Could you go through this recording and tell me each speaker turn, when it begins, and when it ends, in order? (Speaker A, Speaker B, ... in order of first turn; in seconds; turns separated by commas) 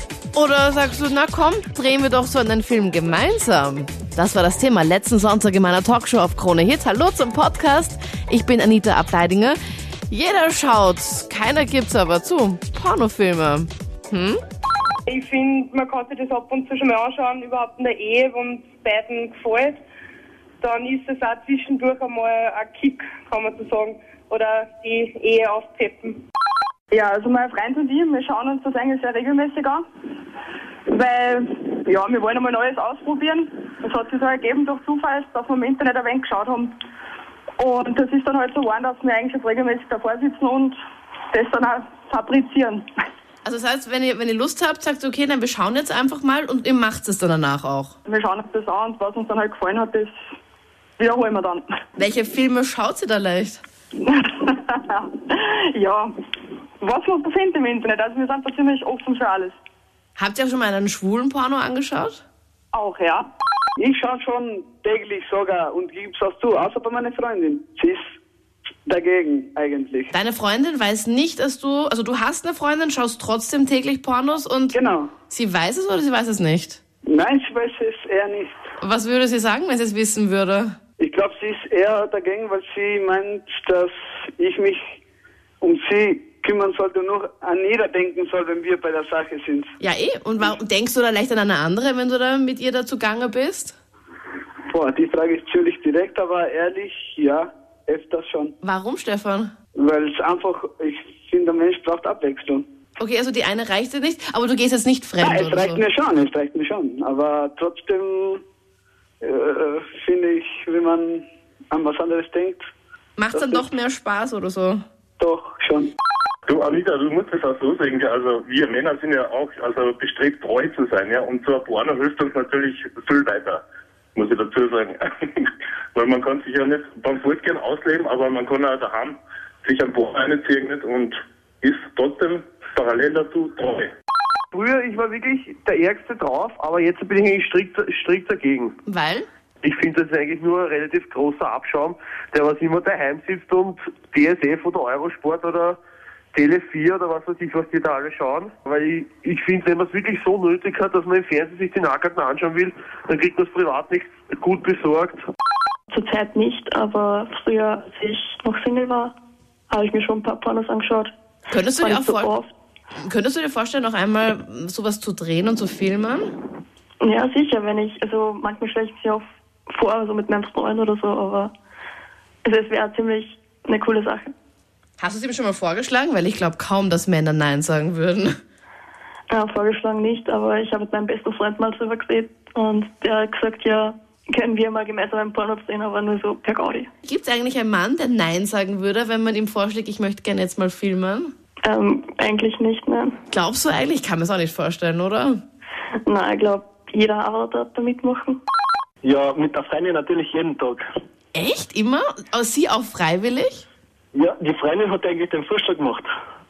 Speaker A: 0.3-9.6, Speaker A: 10.1-14.4, Speaker B: 15.1-19.8, Speaker B: 20.6-26.2, Speaker C: 26.9-29.8, Speaker C: 30.9-36.7, Speaker C: 37.6-40.7, Speaker C: 41.3-42.8, Speaker A: 43.4-47.9, Speaker C: 48.0-50.1, Speaker C: 51.0-51.6, Speaker A: 52.0-53.6, Speaker C: 54.0-56.1, Speaker C: 56.8-59.5, Speaker A: 60.2-62.2, Speaker C: 62.7-63.3, Speaker D: 63.8-68.1, Speaker D: 68.8-70.1, Speaker A: 70.1-76.8, Speaker D: 74.7-75.1, Speaker D: 77.0-78.6, Speaker A: 78.8-80.8, Speaker D: 81.0-84.9, Speaker D: 85.6-89.7, Speaker A: 89.8-93.8, Speaker D: 94.7-98.5, Speaker A: 98.6-99.5, Speaker D: 99.8-102.7, Speaker A: 103.0-105.8, Speaker D: 105.2-108.4, Speaker D: 109.2-112.6, Speaker A: 113.2-114.8, Speaker D: 113.3-113.7, Speaker D: 115.2-115.9, Speaker E: 116.5-123.6, Speaker E: 124.2-133.9, Speaker F: 134.5-138.7, Speaker A: 138.9-139.3, Speaker F: 139.6-145.8, Speaker F: 146.3-155.2, Speaker G: 155.9-159.1, Speaker G: 159.7-161.1, Speaker A: 161.5-162.3, Speaker G: 161.7-162.5, Speaker A: 162.9-166.3, Speaker G: 167.0-171.5, Speaker G: 172.4-174.3, Speaker A: 175.0-178.3, Speaker G: 179.3-186.9, Speaker A: 187.0-191.3, Speaker G: 191.6-193.1, Speaker A: 193.3-195.4, Speaker G: 196.1-198.4, Speaker H: 199.0-200.8, Speaker A: 201.3-203.7, Speaker H: 204.1-206.1